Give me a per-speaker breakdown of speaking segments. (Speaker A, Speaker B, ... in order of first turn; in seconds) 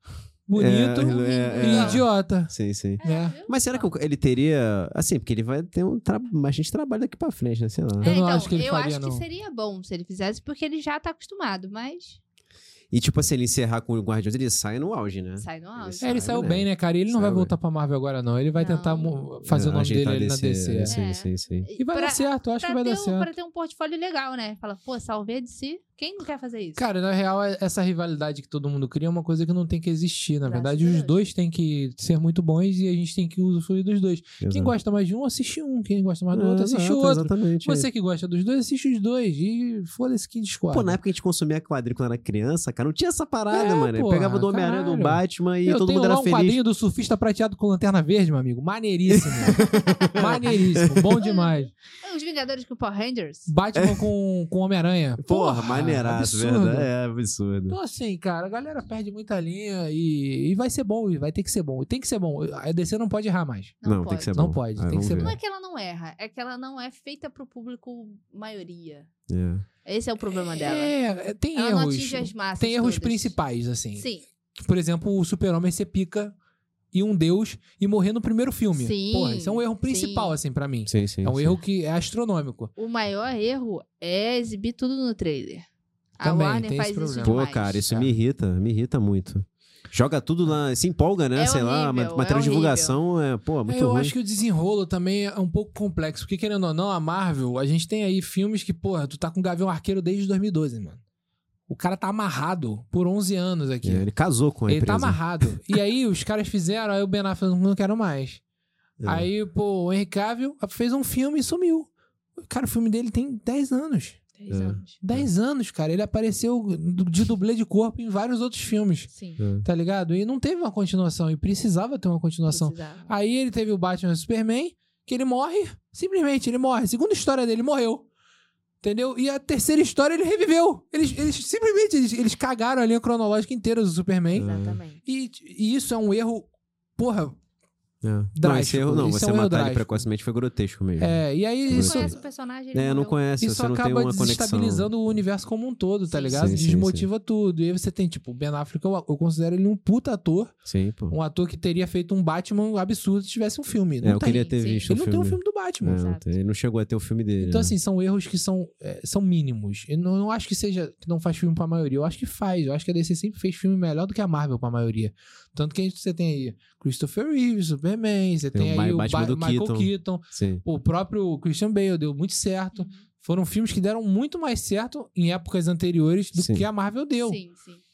Speaker A: 0.5-3.4, 8.0-9.2, 16.0-21.0, 21.8-23.3, 26.8-41.0, 43.5-51.7, 53.5-56.9, 57.7-63.7, 64.3-65.3, 70.5-74.0, 74.6-76.3, 76.9-82.7, 86.2-88.2, 93.7-101.0, 101.7-104.1, 104.7-108.4, 109.0-111.9, 112.4-114.2, 115.0-119.1, 119.6-128.1, 128.8-134.5, 135.0-137.4, 138.3-140.0, 141.0-142.1, 143.4-150.5, 151.1-156.0, 157.4-177.4
Speaker B: 0.6-8.1, 12.9-17.5, 19.4-21.7, 34.4-34.7, 36.3-37.9, 40.7-46.6, 49.1-51.1, 53.7-54.0, 55.2-57.8, 63.8-65.3, 69.3-69.7, 80.9-81.6, 87.2-94.1, 103.8-105.2, 109.0-109.3, 114.5-115.3, 119.4-119.7, 134.3-134.8, 138.0-142.1, 142.7-144.9, 146.3-147.1, 150.6-151.1, 154.0-157.7, 168.5-170.6, 176.3-176.7
Speaker C: 1.0-2.0, 3.0-3.9, 8.0-12.2, 15.4-16.2, 18.6-19.2, 20.8-26.8, 30.4-31.2, 49.6-50.2, 51.2-53.5, 63.8-64.3, 65.1-69.1, 69.8-70.9, 71.5-73.4, 74.0-74.2, 78.7-80.3, 82.8-85.6, 86.2-87.8, 91.3-93.0, 114.4-115.0, 119.1-119.4, 122.5-123.1, 134.3-135.0, 141.7-143.2, 146.1-146.6, 154.2-154.9, 155.9-156.2, 172.7-173.0, 177.2-177.8